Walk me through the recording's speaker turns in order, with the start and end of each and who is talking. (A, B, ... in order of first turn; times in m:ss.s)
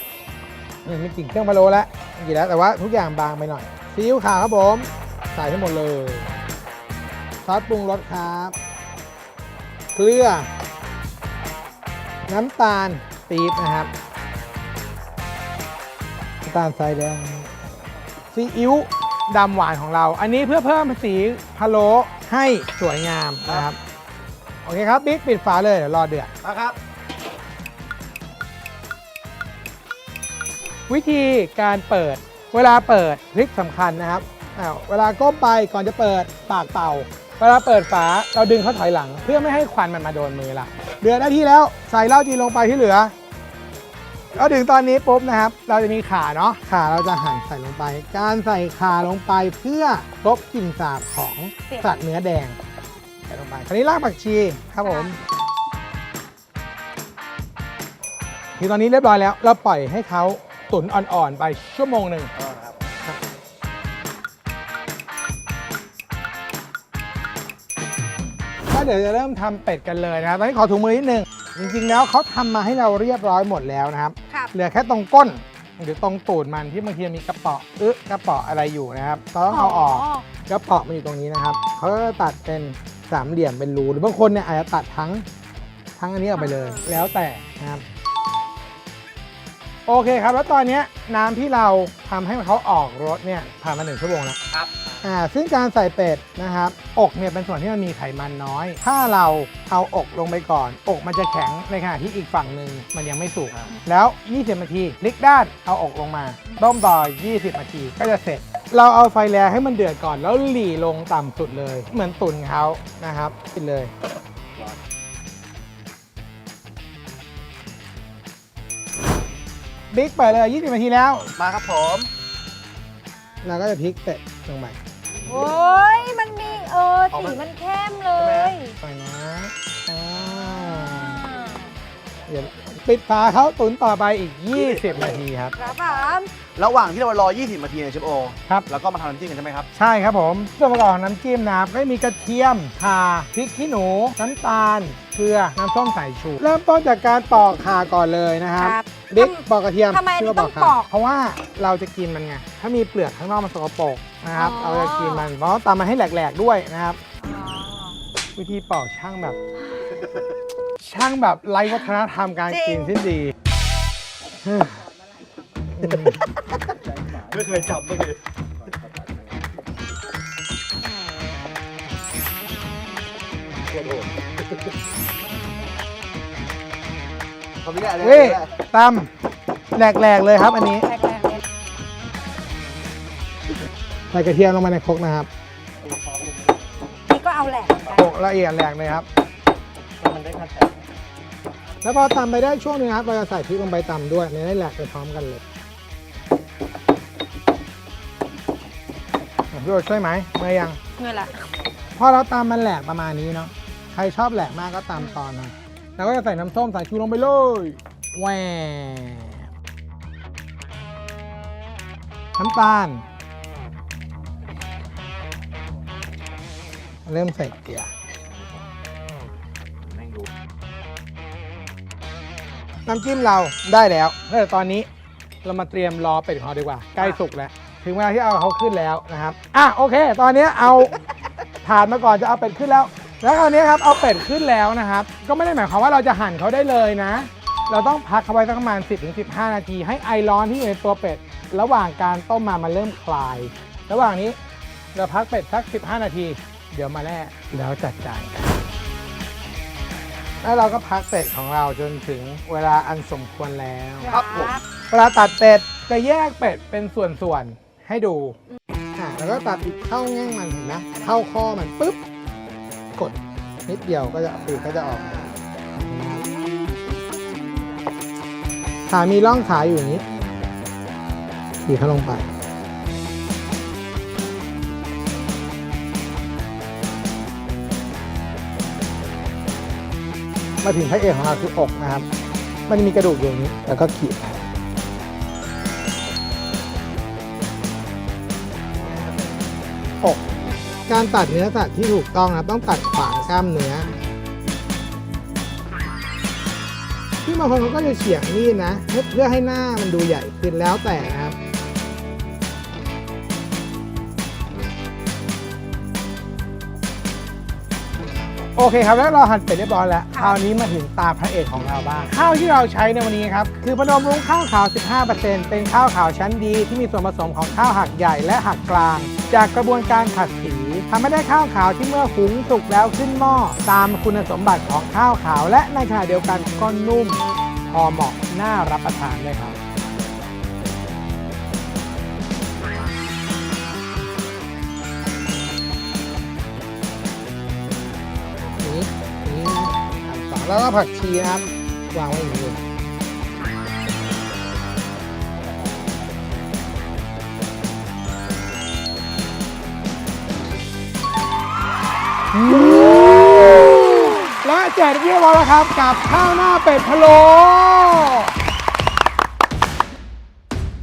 0:00.8-0:06.3 A
0:07.4-0:08.6 A
0:09.9-0:10.5 A
0:12.3-0:13.9 A
0:16.4-0:17.5 A
0:18.3-0:23.8 A
0:24.6-0:26.3 A
0:26.4-0:26.8 B
0:30.9-0:43.1 A
0:44.3-0:52.6 A
0:53.3-0:55.2 A
0:54.8-0:55.2 C
0:58.6-1:02.3 A
1:02.4-1:02.8 B
1:08.7-1:25.2 A
1:19.5-1:20.2 C
1:26.0-1:27.8 A
1:26.4-1:26.9 C
1:29.9-1:34.4 A
1:35.0-1:53.9 A
1:59.9-2:01.3 A
2:01.3-2:02.1 B
2:03.4-2:04.8 A
2:05.3-2:08.8 C
2:07.1-2:07.4 B
2:08.2-2:08.5 B
2:08.8-2:11.3 A
2:11.0-2:11.7 C
2:12.3-2:15.6 A
2:15.6-2:16.3 C
2:16.6-2:19.7 B
2:19.8-2:37.0 A
2:28.6-2:30.9 C
2:34.3-2:35.3 C
2:37.2-2:38.0 C
2:38.4-2:39.4 A
2:40.8-2:43.3 A
2:42.5-2:42.9 C
2:44.4-2:44.8 A
2:45.8-2:46.2 A
2:47.3-2:48.2 B
2:53.8-2:54.1 B
2:57.6-2:58.4 B
2:58.0-2:59.1 A
2:59.7-3:00.9 A
3:00.9-3:01.4 C
3:04.1-3:05.3 A
3:07.1-3:08.0 C
3:07.9-3:09.1 A
3:10.1-3:10.5 B
3:11.8-3:15.4 A
3:19.5-3:20.8 A
3:21.0-3:21.4 C
3:22.0-3:29.4 A
3:32.4-3:33.0 A
3:37.1-3:37.9 A
3:39.9-3:40.3 B
3:42.9-3:44.9 A
3:45.4-3:50.9 A
3:51.6-4:04.4 A
4:04.9-4:08.6 A
4:10.4-4:14.1 A
4:14.0-4:14.6 C
4:14.1-4:14.6 B
4:14.9-4:18.3 A
4:19.0-4:22.0 A
4:23.0-4:26.2 A
4:24.8-4:25.3 B
4:26.2-4:27.3 C
4:28.9-4:30.0 A
4:31.6-4:32.3 A
4:40.6-4:42.1 A
4:42.7-4:44.4 A
4:50.9-4:53.9 A
4:57.2-5:01.4 A
5:08.6-5:29.6 A
5:10.1-5:10.4 C
5:38.6-5:42.6 A
5:52.3-5:58.3 A
5:52.6-5:54.3 C